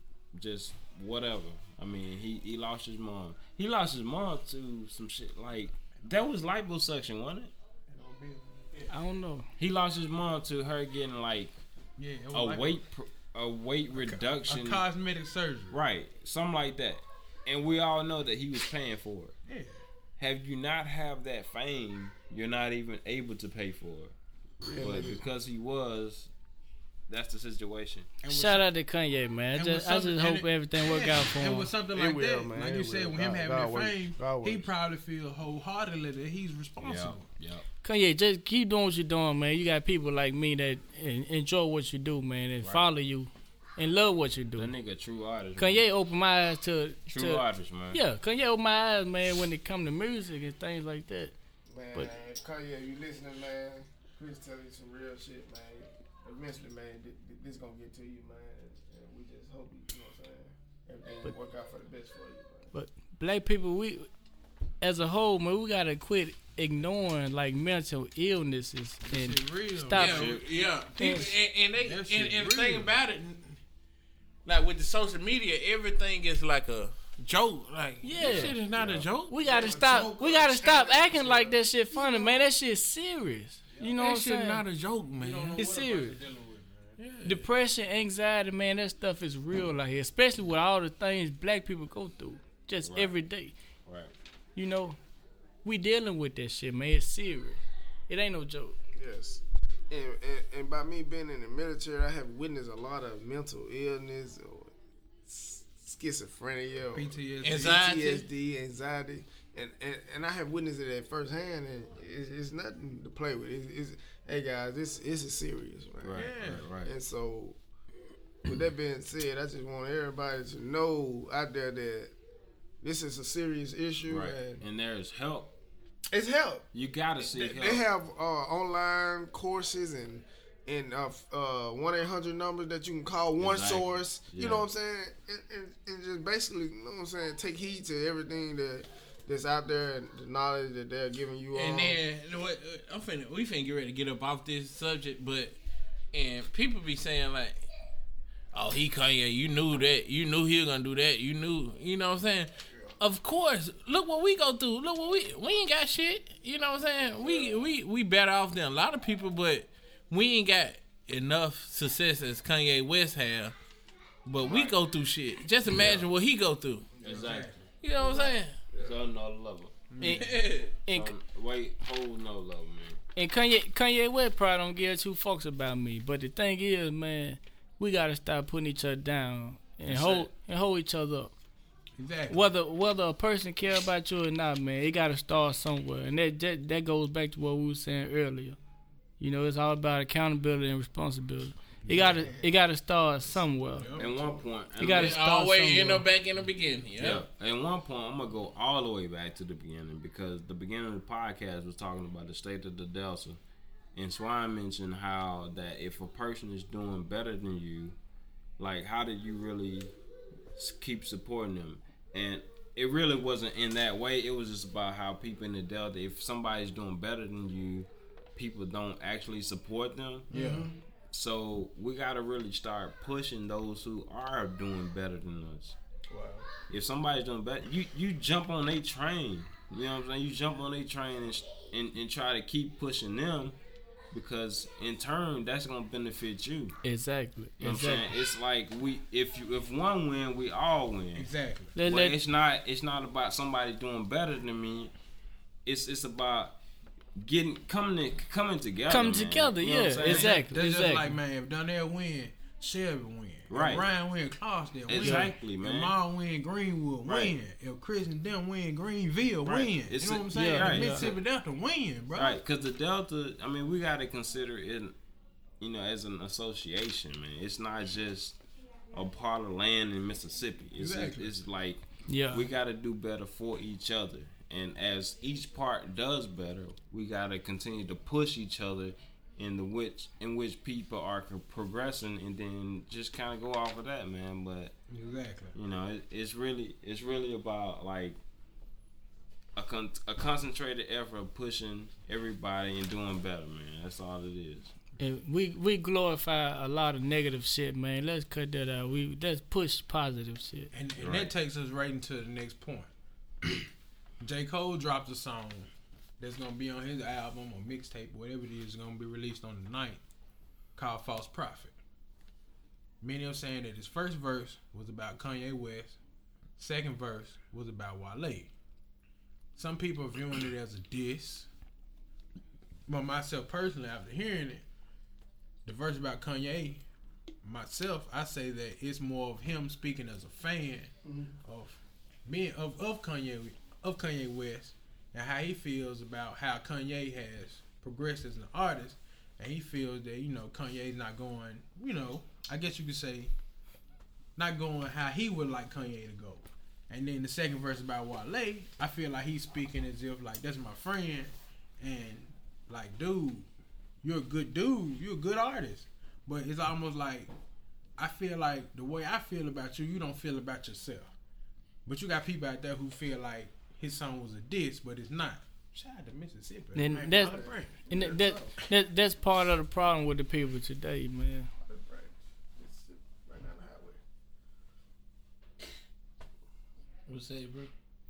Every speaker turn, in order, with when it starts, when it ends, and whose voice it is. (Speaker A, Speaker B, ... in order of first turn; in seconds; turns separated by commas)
Speaker A: 0.3-7.5, Speaker B: 7.9-8.9, Speaker C: 8.9-9.5, Speaker A: 9.6-11.5, Speaker B: 12.0-12.8, Speaker A: 12.3-14.8, Speaker B: 13.9-15.8, Speaker A: 15.7-19.3, Speaker B: 19.5-19.8, Speaker A: 20.2-24.1, Speaker D: 24.6-25.2, Speaker A: 24.8-26.3, Speaker A: 27.1-28.1, Speaker B: 28.2-28.7, Speaker C: 28.3-31.7, Speaker B: 29.5-37.2, Speaker D: 31.9-34.6, Speaker A: 36.8-37.6, Speaker C: 37.8-44.7, Speaker A: 44.5-45.8, Speaker C: 45.6-51.3, Speaker A: 47.1-48.0, Speaker D: 51.7-62.7, Speaker C: 62.7-64.1, Speaker C: 64.8-70.4, Speaker B: 69.0-70.3, Speaker E: 69.9-73.5, Speaker A: 70.0-70.4, Speaker C: 71.0-71.3, Speaker B: 71.8-72.9, Speaker E: 74.4-79.4, Speaker C: 78.0-78.6, Speaker B: 78.2-81.5, Speaker C: 79.3-84.6, Speaker D: 79.5-82.4, Speaker E: 84.0-85.6, Speaker B: 85.2-87.0, Speaker C: 85.5-86.2, Speaker E: 87.0-87.5, Speaker C: 87.2-93.5, Speaker A: 92.8-93.1, Speaker A: 93.8-94.1, Speaker C: 94.5-95.0, Speaker C: 95.6-98.8, Speaker D: 99.0-104.7, Speaker D: 105.2-117.6, Speaker B: 106.9-107.8, Speaker E: 107.4-108.2, Speaker A: 116.0-116.9, Speaker B: 116.1-116.7, Speaker D: 118.4-122.1, Speaker D: 122.8-124.6, Speaker A: 124.1-125.5, Speaker D: 126.1-126.7, Speaker A: 126.7-127.8, Speaker D: 127.2-142.0, Speaker A: 133.4-134.7, Speaker E: 141.5-145.6, Speaker E: 146.1-147.6, Speaker E: 148.5-163.5, Speaker E: 164.3-166.9, Speaker A: 164.4-164.7, Speaker A: 165.7-166.1, Speaker A: 167.0-169.7, Speaker B: 167.0-167.6, Speaker E: 167.8-168.6, Speaker B: 169.9-170.6, Speaker C: 170.0-171.1, Speaker E: 170.1-170.7, Speaker A: 170.9-173.0, Speaker C: 173.1-181.3, Speaker B: 182.0-182.4, Speaker C: 182.3-188.6, Speaker C: 189.2-193.9, Speaker B: 191.8-192.3, Speaker B: 193.7-194.3, Speaker A: 194.0-195.2, Speaker C: 194.8-196.0, Speaker E: 194.8-197.2, Speaker A: 197.0-203.4, Speaker A: 203.9-207.9, Speaker A: 208.6-209.9, Speaker A: 210.6-220.3, Speaker B: 220.3-220.7, Speaker D: 220.3-220.7, Speaker A: 221.1-225.8, Speaker B: 226.1-226.4, Speaker A: 226.7-233.6, Speaker A: 234.1-236.8, Speaker C: 236.8-238.1, Speaker A: 237.6-241.3, Speaker B: 241.1-241.7, Speaker C: 241.8-242.2, Speaker A: 241.8-244.9, Speaker A: 245.7-246.6, Speaker A: 247.2-250.4, Speaker C: 248.9-251.1, Speaker B: 250.0-262.4, Speaker A: 253.5-253.9, Speaker A: 254.9-255.9, Speaker C: 255.0-255.3, Speaker A: 257.1-257.3, Speaker A: 259.4-261.2, Speaker C: 260.3-261.1, Speaker A: 262.1-264.9, Speaker A: 265.6-268.4, Speaker A: 268.9-284.7, Speaker B: 270.8-271.3, Speaker C: 272.1-272.5, Speaker B: 284.9-285.5, Speaker A: 285.5-288.2, Speaker A: 289.6-294.7, Speaker C: 295.0-300.7, Speaker B: 300.7-302.9, Speaker A: 301.0-301.3, Speaker B: 304.2-310.0, Speaker B: 310.8-311.7, Speaker B: 313.0-316.0, Speaker B: 316.6-318.5, Speaker B: 319.6-321.5, Speaker B: 322.9-324.6, Speaker B: 325.6-326.8, Speaker B: 327.4-330.9, Speaker D: 331.1-331.3, Speaker B: 331.4-343.3, Speaker B: 344.4-353.5, Speaker B: 354.0-357.3, Speaker B: 358.0-361.1, Speaker B: 361.8-367.8, Speaker C: 366.7-371.5, Speaker D: 367.2-368.5, Speaker D: 371.6-374.0, Speaker E: 377.1-377.7